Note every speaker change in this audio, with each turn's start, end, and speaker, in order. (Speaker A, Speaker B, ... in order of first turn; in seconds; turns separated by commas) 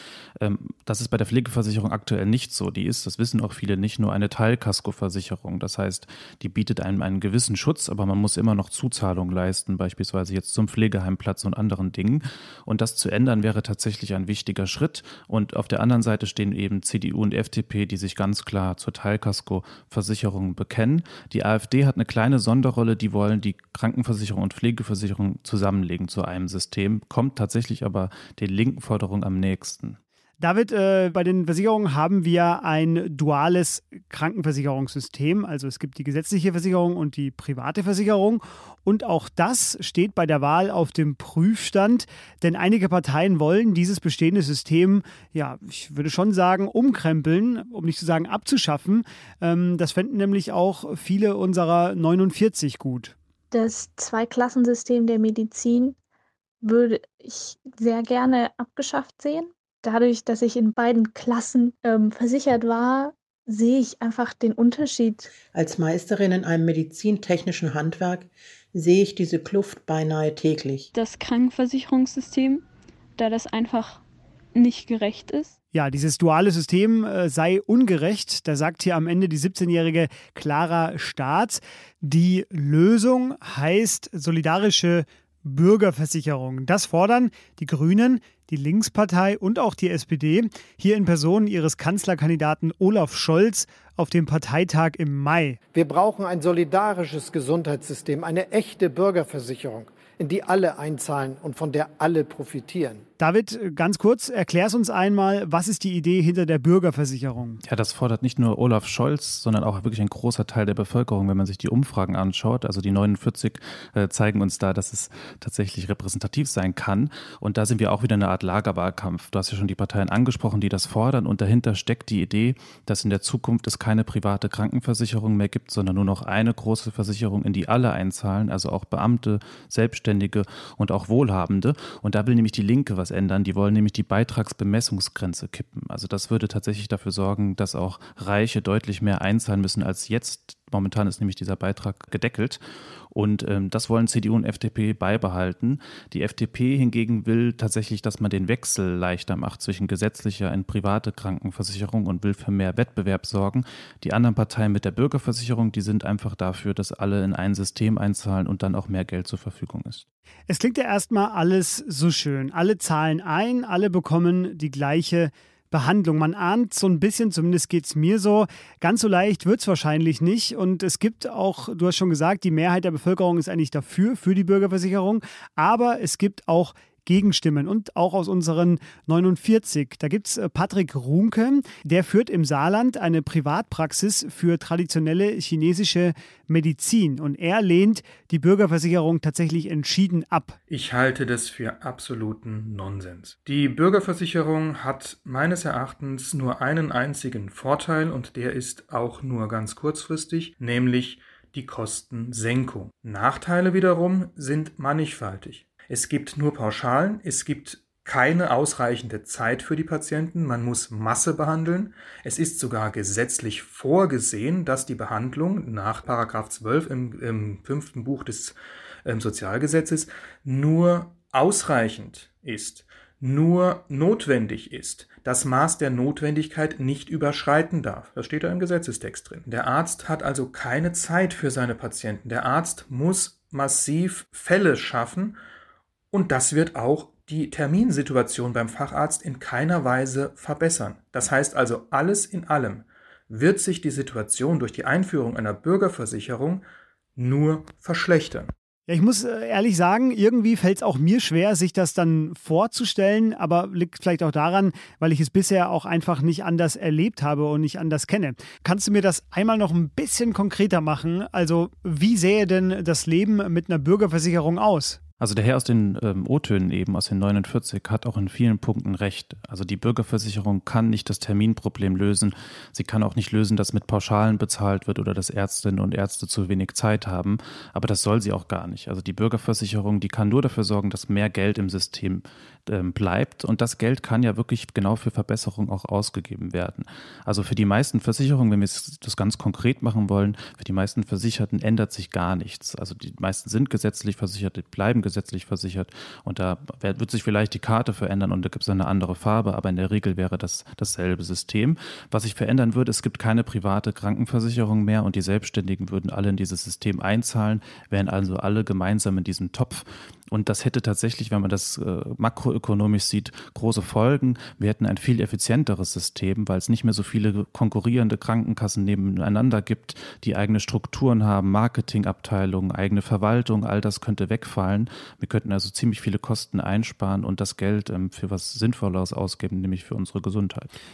Speaker A: 0.4-30.0, Speaker B: 30.4-53.1, Speaker C: 53.5-55.9, Speaker C: 56.6-65.3, Speaker D: 65.4-70.9, Speaker C: 70.9-72.7, Speaker C: 73.2-74.0, Speaker C: 74.5-75.5, Speaker B: 75.7-95.6, Speaker E: 95.7-103.0, Speaker B: 103.2-107.6, Speaker A: 107.6-160.1, Speaker B: 160.5-190.6, Speaker F: 190.7-235.4, Speaker F: 236.1-248.5, Speaker B: 248.9-265.0, Speaker A: 265.2-330.7